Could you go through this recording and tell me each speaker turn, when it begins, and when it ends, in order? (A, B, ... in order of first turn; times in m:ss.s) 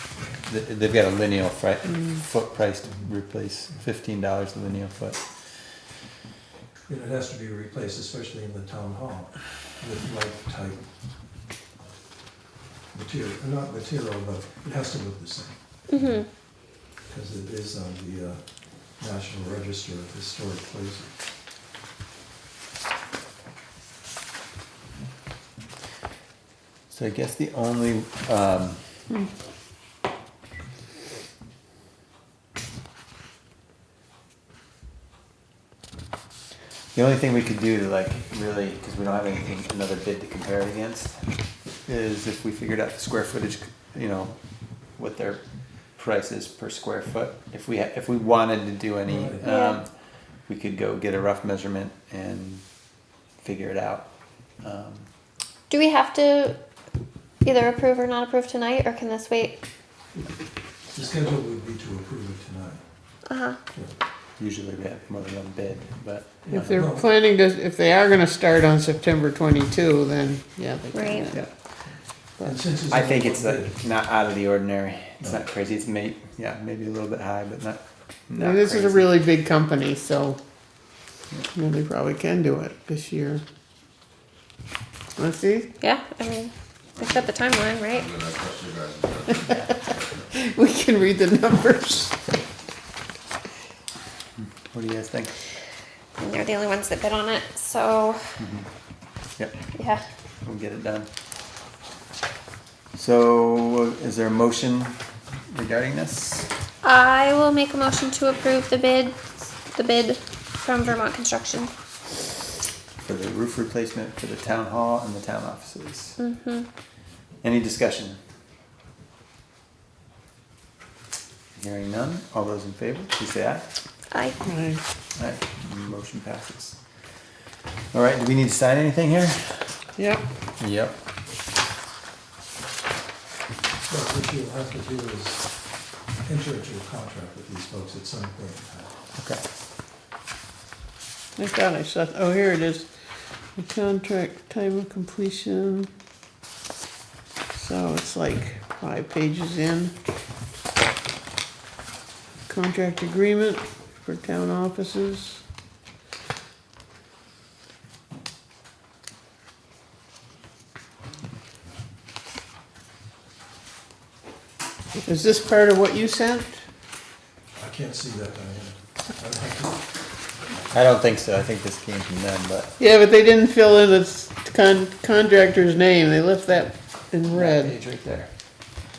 0:00.3-0:05.3 A
0:06.9-0:10.8 B
0:12.9-0:16.4 B
0:15.9-0:16.3 C
0:17.1-0:21.1 B
0:26.9-0:28.8 A
0:37.0-0:41.2 A
0:41.9-0:44.4 A
0:44.9-0:45.4 A
0:45.9-0:52.6 A
0:49.1-0:49.4 B
0:49.4-0:49.8 C
0:53.4-0:54.1 A
0:54.6-0:55.1 A
0:55.7-0:56.6 C
0:57.4-0:59.6 C
1:00.9-1:02.8 B
1:03.3-1:03.6 C
1:04.4-1:06.9 A
1:06.4-1:07.1 B
1:06.5-1:11.5 D
1:10.9-1:11.3 C
1:11.9-1:13.8 B
1:12.9-1:19.1 A
1:18.4-1:20.4 D
1:21.5-1:23.4 D
1:25.2-1:25.7 D
1:25.8-1:28.1 C
1:27.0-1:30.2 E
1:30.3-1:32.2 D
1:34.4-1:35.4 A
1:36.2-1:38.2 C
1:38.4-1:38.7 A
1:39.7-1:40.0 C
1:40.4-1:41.1 A
1:42.9-1:46.5 A
1:46.8-1:51.7 C
1:53.0-1:56.2 A
1:56.2-1:56.7 C
1:57.4-1:58.2 A
2:01.6-2:03.7 A
2:04.4-2:04.8 D
2:05.2-2:06.8 A
2:07.9-2:09.8 A
2:10.0-2:10.2 D
2:10.6-2:11.0 A
2:13.9-2:19.0 B
2:19.2-2:19.4 A
2:21.4-2:23.0 D
2:23.5-2:25.9 D
2:27.5-2:29.9 D
2:32.5-2:35.4 D
2:45.0-2:46.6 D
2:47.6-2:49.9 B
2:50.7-2:52.7 A
2:52.8-2:57.8 D
2:57.3-2:58.3 A